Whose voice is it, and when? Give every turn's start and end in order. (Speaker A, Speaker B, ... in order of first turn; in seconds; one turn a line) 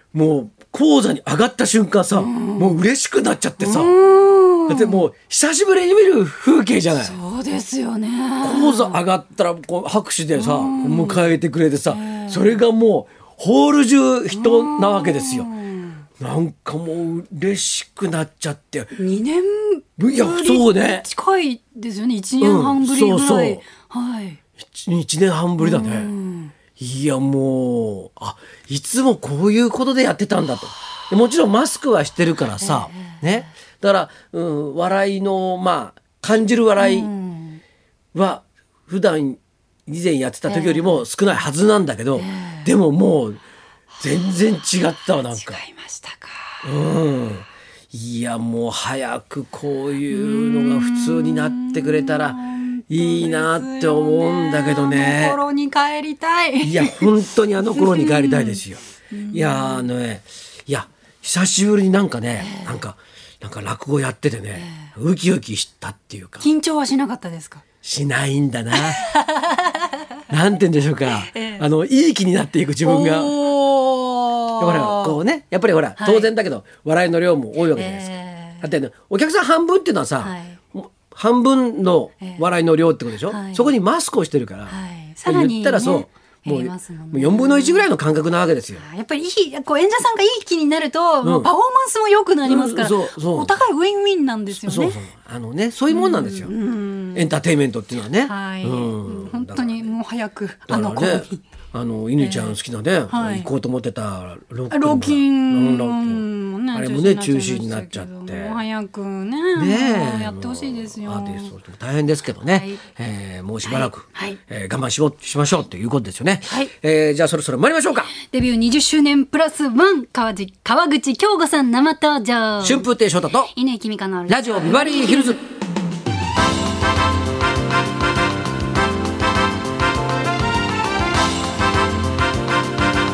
Speaker A: 0.1-4.0
Speaker B: 2.1-2.8
Speaker B: 3.6-5.0
Speaker A: 4.7-7.2
Speaker B: 6.9-9.0
Speaker A: 8.4-15.5
Speaker B: 10.3-11.2
Speaker B: 11.9-12.5
Speaker B: 14.3-16.0
Speaker A: 16.2-19.0
Speaker B: 18.9-24.4
Speaker A: 20.0-21.1
Speaker A: 22.4-23.6
Speaker A: 24.6-26.1
Speaker B: 25.6-26.5
Speaker A: 26.8-37.1
Speaker B: 32.6-33.2
Speaker B: 36.8-37.6
Speaker A: 38.1-43.4
Speaker B: 40.5-41.0
Speaker B: 42.1-42.7
Speaker A: 44.0-45.6
Speaker B: 45.1-46.7
Speaker A: 46.6-55.4
Speaker B: 50.1-59.9
Speaker A: 56.6-66.5
Speaker B: 62.4-62.8
Speaker B: 66.4-67.6
Speaker A: 67.8-69.0
Speaker B: 68.7-70.0
Speaker A: 70.3-73.4
Speaker B: 71.2-71.6
Speaker B: 72.8-75.2
Speaker A: 74.6-84.7
Speaker B: 76.0-76.3
Speaker B: 77.7-78.7
Speaker B: 80.2-80.6
Speaker B: 83.3-83.7
Speaker B: 84.7-87.9
Speaker A: 85.2-88.8
Speaker B: 88.7-95.0
Speaker A: 91.2-91.5
Speaker A: 92.4-93.5
Speaker A: 94.6-96.5
Speaker B: 95.9-97.3
Speaker A: 97.1-99.9
Speaker B: 98.2-101.4
Speaker A: 100.7-108.6
Speaker B: 102.2-102.6
Speaker B: 103.1-103.5
Speaker B: 104.7-111.5
Speaker A: 109.5-118.1
Speaker B: 112.5-112.8
Speaker B: 113.6-114.4
Speaker B: 116.5-116.7
Speaker B: 118.2-122.9
Speaker A: 122.6-123.5
Speaker B: 123.5-125.4
Speaker A: 124.3-125.4